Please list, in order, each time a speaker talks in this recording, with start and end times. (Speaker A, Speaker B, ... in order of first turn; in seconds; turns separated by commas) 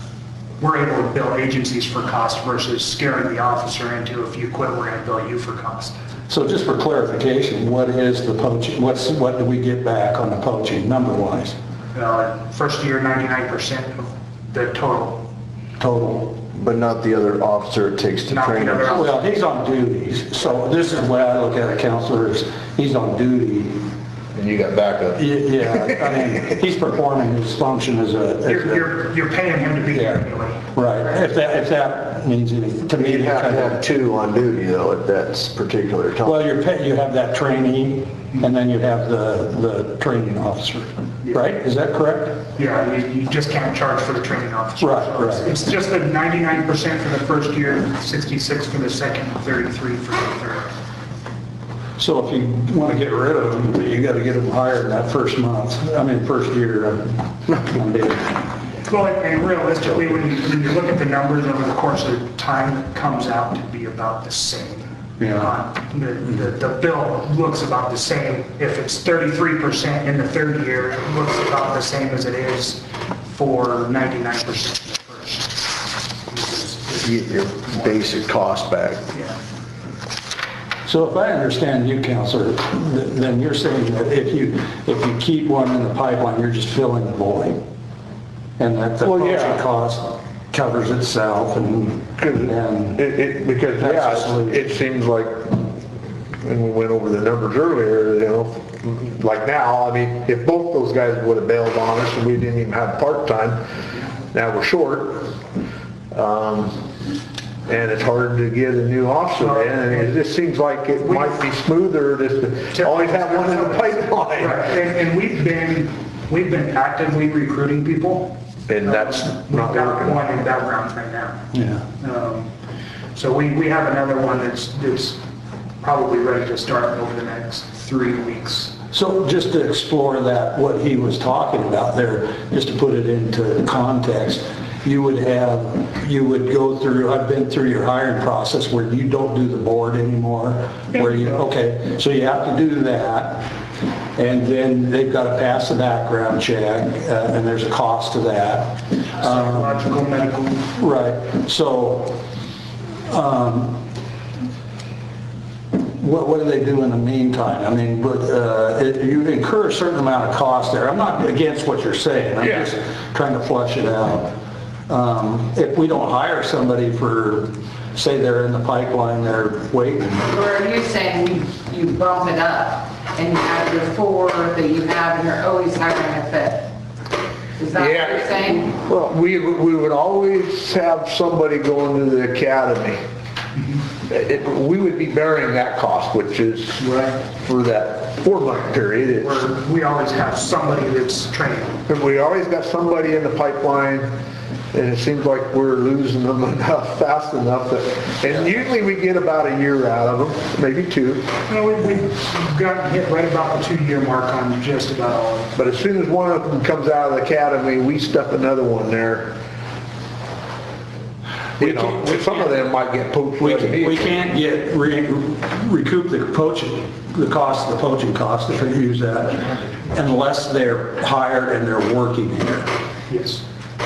Speaker A: 0.6-5.9, Speaker B: 6.3-11.6, Speaker A: 11.9-15.2, Speaker B: 15.8-16.4, Speaker C: 16.5-19.0, Speaker A: 18.3-19.2, Speaker B: 18.9-23.9, Speaker D: 24.3-26.1, Speaker B: 25.1-29.0, Speaker A: 28.4-30.6, Speaker B: 30.7-33.8, Speaker C: 33.0-36.4, Speaker B: 36.2-42.4, Speaker A: 42.5-50.7, Speaker B: 44.8-45.5, Speaker B: 52.0-58.5, Speaker A: 58.8-78.2, Speaker B: 65.2-65.5, Speaker C: 77.0-79.1, Speaker B: 80.8-87.6, Speaker B: 88.6-93.0, Speaker D: 89.0-89.6, Speaker D: 92.2-95.6, Speaker B: 93.8-94.7, Speaker D: 96.4-103.6, Speaker D: 104.3-105.3, Speaker D: 106.1-106.8, Speaker D: 107.7-114.7, Speaker A: 109.4-110.1, Speaker A: 111.0-111.4, Speaker A: 112.7-122.5, Speaker D: 118.7-120.2, Speaker B: 121.5-121.8, Speaker A: 123.1-125.2, Speaker A: 125.8-128.7, Speaker B: 128.9-143.5, Speaker A: 140.9-141.4, Speaker B: 144.2-149.8, Speaker A: 149.2-150.7, Speaker B: 150.8-152.2, Speaker B: 153.1-153.8, Speaker B: 155.9-164.3, Speaker B: 164.9-170.3, Speaker E: 170.2-176.7, Speaker E: 177.6-178.7, Speaker D: 177.8-183.0, Speaker D: 184.1-189.3, Speaker A: 186.8-187.2, Speaker A: 189.2-191.8, Speaker D: 191.9-194.1, Speaker D: 194.7-201.3, Speaker A: 201.5-205.5, Speaker D: 205.5-209.3, Speaker B: 211.6-212.5, Speaker D: 211.6-214.1, Speaker B: 213.4-222.7, Speaker A: 223.1-223.4